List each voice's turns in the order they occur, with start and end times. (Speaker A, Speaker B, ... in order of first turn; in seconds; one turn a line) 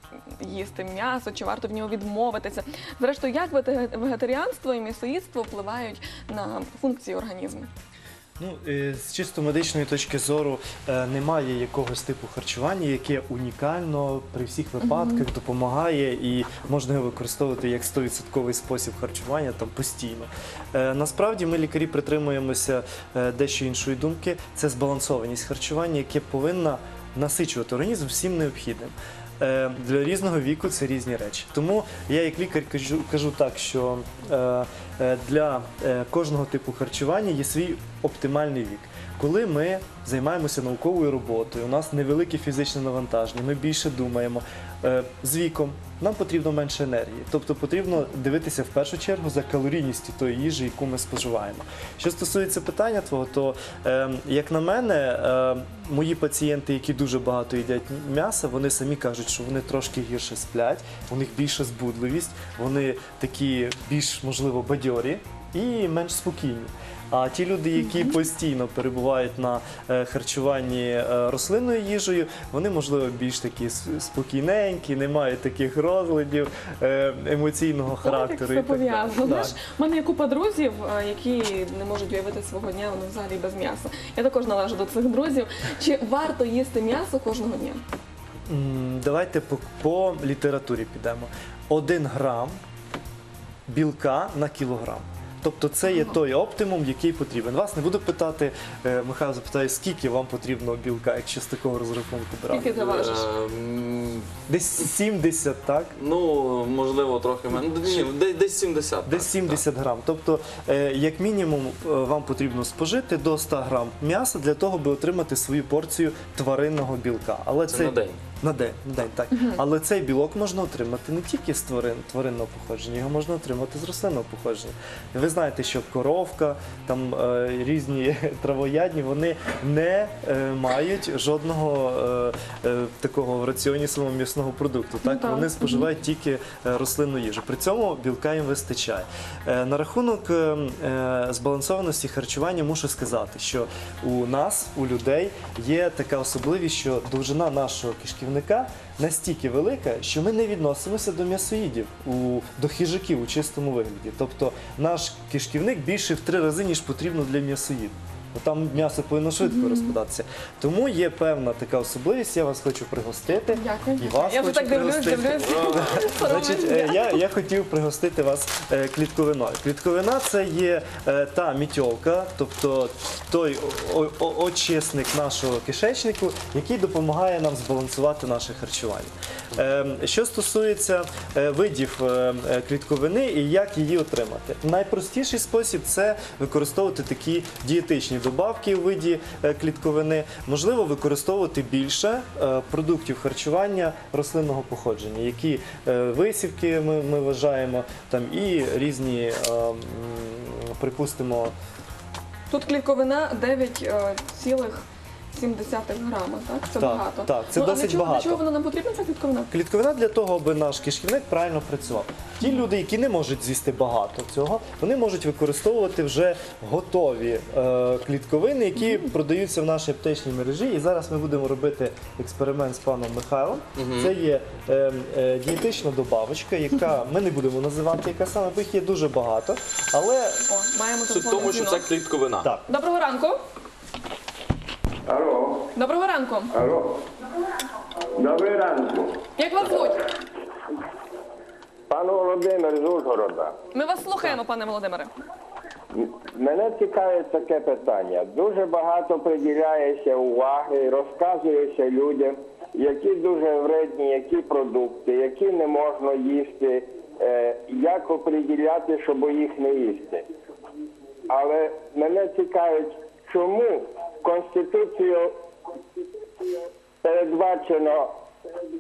Speaker A: 0.4-7.7
Speaker B: 8.4-79.6
Speaker A: 14.8-15.3
Speaker A: 67.8-68.2
Speaker A: 78.0-87.8
Speaker B: 88.5-92.6
Speaker B: 93.7-102.8
Speaker A: 102.5-103.3
Speaker C: 102.7-104.3
Speaker B: 104.5-106.0
Speaker C: 106.0-109.6
Speaker B: 109.1-201.5
Speaker C: 117.7-118.2
Speaker A: 135.0-135.9
Speaker A: 159.4-159.9
Speaker A: 163.5-167.2
Speaker C: 165.4-166.1
Speaker A: 202.5-209.5
Speaker B: 206.8-208.4
Speaker B: 209.5-230.4
Speaker C: 223.8-224.1
Speaker A: 230.5-231.9
Speaker C: 231.1-232.5
Speaker A: 232.7-233.4
Speaker D: 235.1-235.7
Speaker A: 235.8-236.6
Speaker D: 236.5-237.0
Speaker D: 238.2-239.2
Speaker A: 239.4-240.1
Speaker D: 241.9-243.6
Speaker A: 243.7-245.1
Speaker D: 245.9-260.3
Speaker D: 261.3-265.3
Speaker D: 267.0-268.1